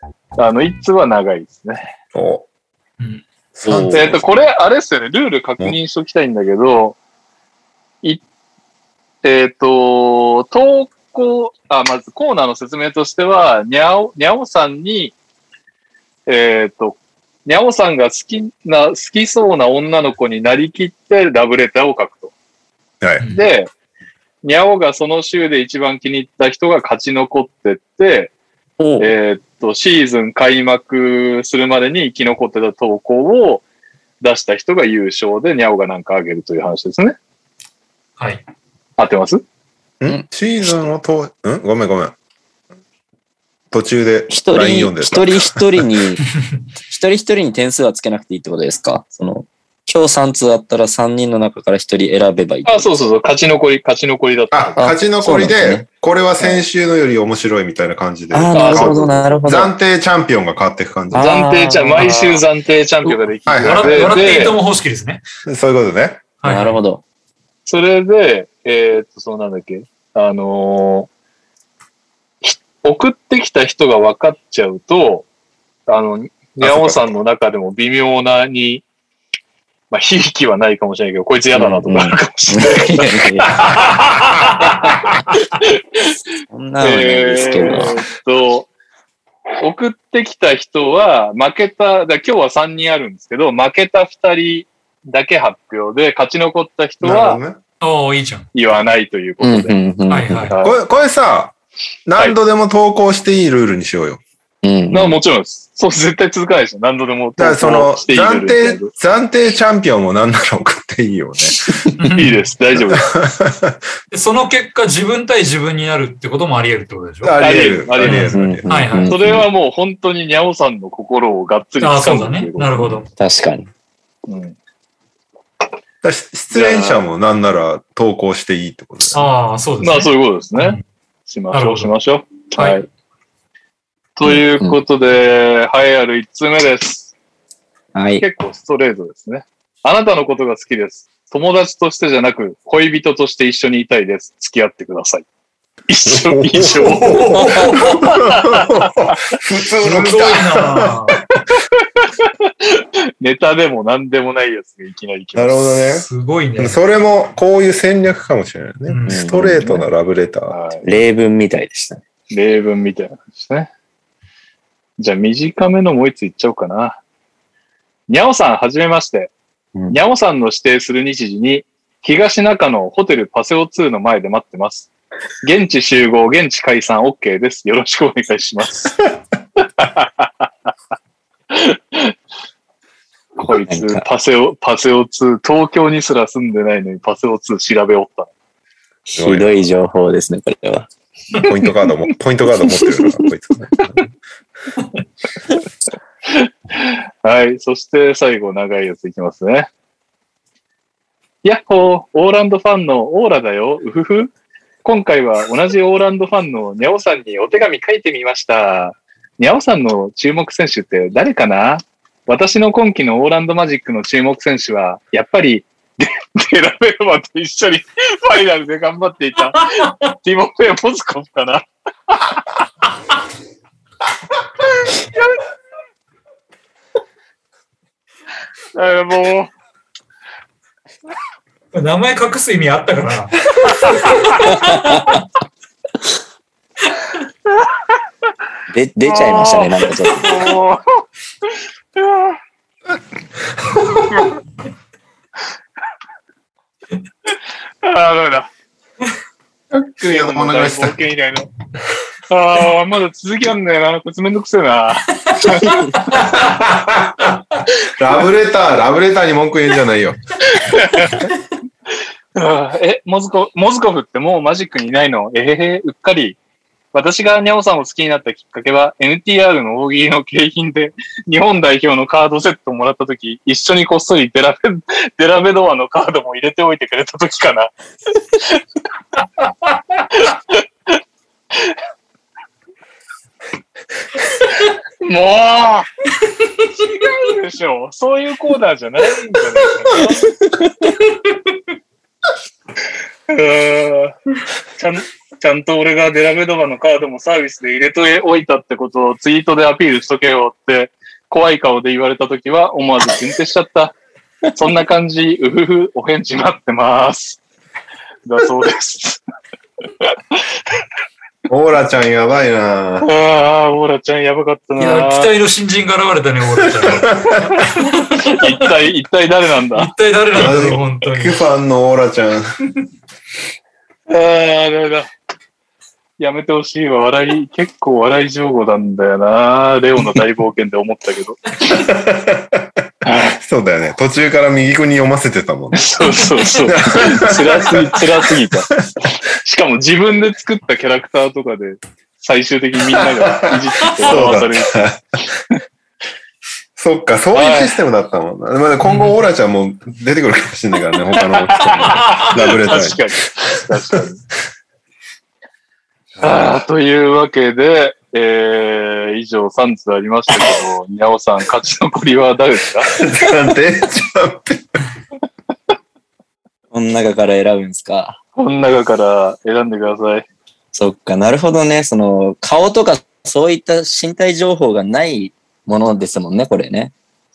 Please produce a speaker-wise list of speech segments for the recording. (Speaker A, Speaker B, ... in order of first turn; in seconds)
Speaker A: 0.4-1.9, 3.8-7.0, 9.2-15.2, 16.3-22.3, 23.3-23.7, 24.4-28.3, 29.0-33.6, 34.2-37.2, 39.0-39.4, 52.6-54.9, 58.5-59.0, 61.1-64.6, 67.7-71.1, 72.4-75.3, 75.9-78.8, 79.9-86.2, 86.8-88.7, 89.6-97.4, 98.5-99.8, 100.5-100.8, 104.9-108.9, 112.2-113.1, 117.4-118.3, 119.1-123.0, 124.3-124.6, 126.5-127.0, 129.8-132.9, 134.2-137.1, 138.2-145.3, 145.9-149.1, 152.0-155.8, 160.5-160.8, 162.3-163.7, 165.0-167.0, 168.1-169.3, 169.9-174.9, 175.4-178.9, 179.6-180.5, 181.5-182.2, 183.4-188.3, 196.3-199.7, 201.4-204.3, 204.8-222.3, 228.8-229.5, 233.8-234.2, 239.1-242.4, 247.8-248.5, 249.8-251.5, 252.3-255.7, 260.5-261.3, 262.4-266.4, 266.9-277.7, 278.3-278.6, 280.1-280.6, 284.5-285.9, 286.7-290.4, 293.3-294.2, 294.8-304.0, 304.5-307.4, 308.3-309.2, 313.0-315.3, 318.2-319.9, 324.1-325.1, 326.2-331.4, 333.1-333.3, 335.8-345.0, 347.3-347.8, 351.1-354.2, 356.2-363.0, 368.4-370.3
Speaker B: 2.1-2.5, 3.6-4.2, 40.0-42.2, 43.7-45.9, 54.5-61.3, 63.5-64.5, 65.5-66.3, 76.6-77.2, 97.0-97.6, 100.6-104.2, 107.4-111.8, 113.1-113.8, 117.2-118.9, 126.0-129.2, 146.1-151.0, 155.3-156.1, 156.6-160.6, 189.2-189.7, 191.4-194.1, 249.9-251.0, 256.4-257.2, 257.9-260.2, 311.5-313.1, 316.6-317.5, 320.3-322.5, 331.7-338.0, 343.2-345.4, 346.8-353.0, 356.2-356.5, 362.9-364.8
Speaker C: 3.0-4.0, 38.2-38.4, 62.0-62.4, 63.6-65.2, 66.4-66.8, 97.8-98.5, 100.1-100.5, 112.0-112.4, 114.1-117.4, 118.0-119.1, 121.8-123.1, 129.1-130.8, 131.5-131.9, 132.5-132.8, 146.8-148.1, 149.8-151.2, 155.9-156.8, 158.9-159.3, 231.7-235.0, 314.8-318.5, 319.8-321.4, 348.8-349.2
Speaker D: 28.8-29.1, 44.3-46.2, 46.9-52.9, 54.8-55.9, 58.3-59.7, 61.1-62.2, 66.5-67.0, 81.5-83.6, 86.5-88.0, 99.4-100.5, 104.6-105.2, 118.1-119.5, 123.2-123.7, 134.2-134.8, 137.9-138.2, 159.1-159.9, 160.8-162.0, 183.5-184.0, 189.1-190.9, 192.6-193.2, 234.4-235.2, 238.7-240.5, 366.7-368.2, 370.7-376.9